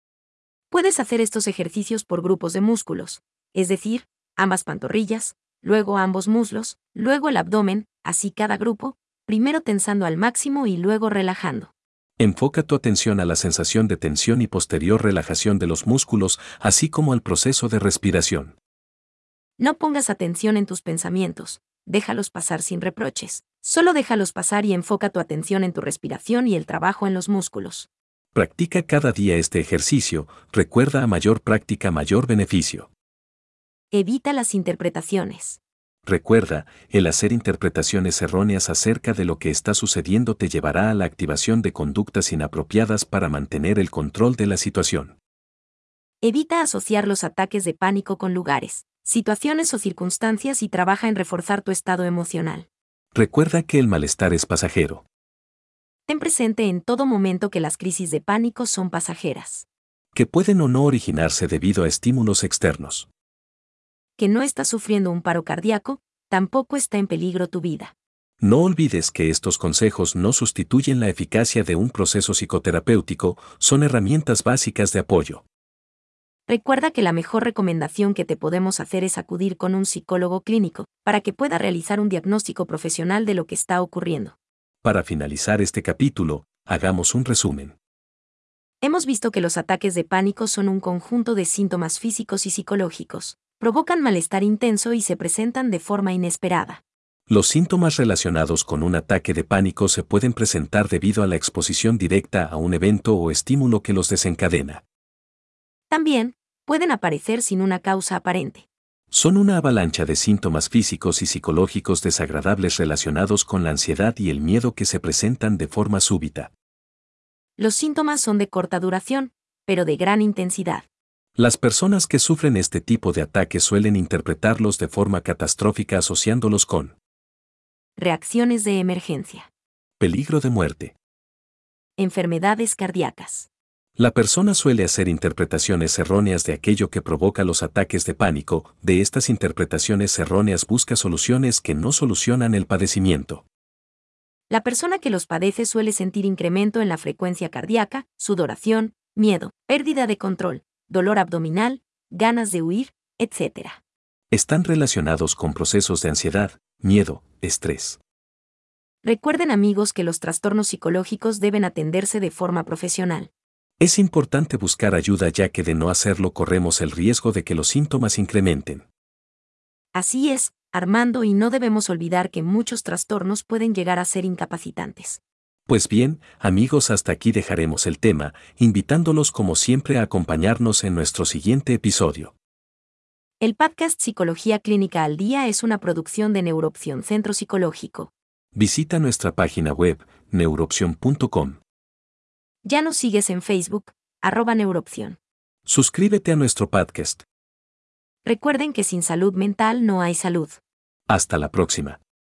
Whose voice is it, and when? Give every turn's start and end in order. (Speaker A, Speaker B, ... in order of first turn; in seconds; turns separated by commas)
Speaker A: 0.7-11.7, Speaker B: 12.2-18.6, Speaker A: 19.6-27.9, Speaker B: 28.3-32.9, Speaker A: 33.9-35.6, Speaker B: 36.0-45.1, Speaker A: 46.2-52.7, Speaker B: 53.1-55.0, Speaker A: 56.1-59.6, Speaker B: 60.1-63.1, Speaker A: 64.2-67.9, Speaker B: 68.4-75.4, Speaker A: 76.5-84.3, Speaker B: 84.8-87.7, Speaker A: 88.8-96.8, Speaker B: 97.3-104.8, Speaker A: 105.9-108.7, Speaker B: 109.1-116.5, Speaker A: 117.6-120.8, Speaker B: 121.4-126.9, Speaker A: 128.0-129.5, Speaker B: 130.0-130.9, Speaker A: 132.0-133.5, Speaker B: 134.0-143.4, Speaker A: 144.5-153.8, Speaker B: 154.3-158.0, Speaker A: 159.0-163.3, Speaker B: 163.8-168.8, Speaker A: 169.9-175.2, Speaker B: 175.7-182.3, Speaker A: 183.4-188.1, Speaker B: 188.5-191.6, Speaker A: 192.6-195.2, Speaker B: 195.7-197.2, Speaker A: 198.2-200.6, Speaker B: 201.1-202.0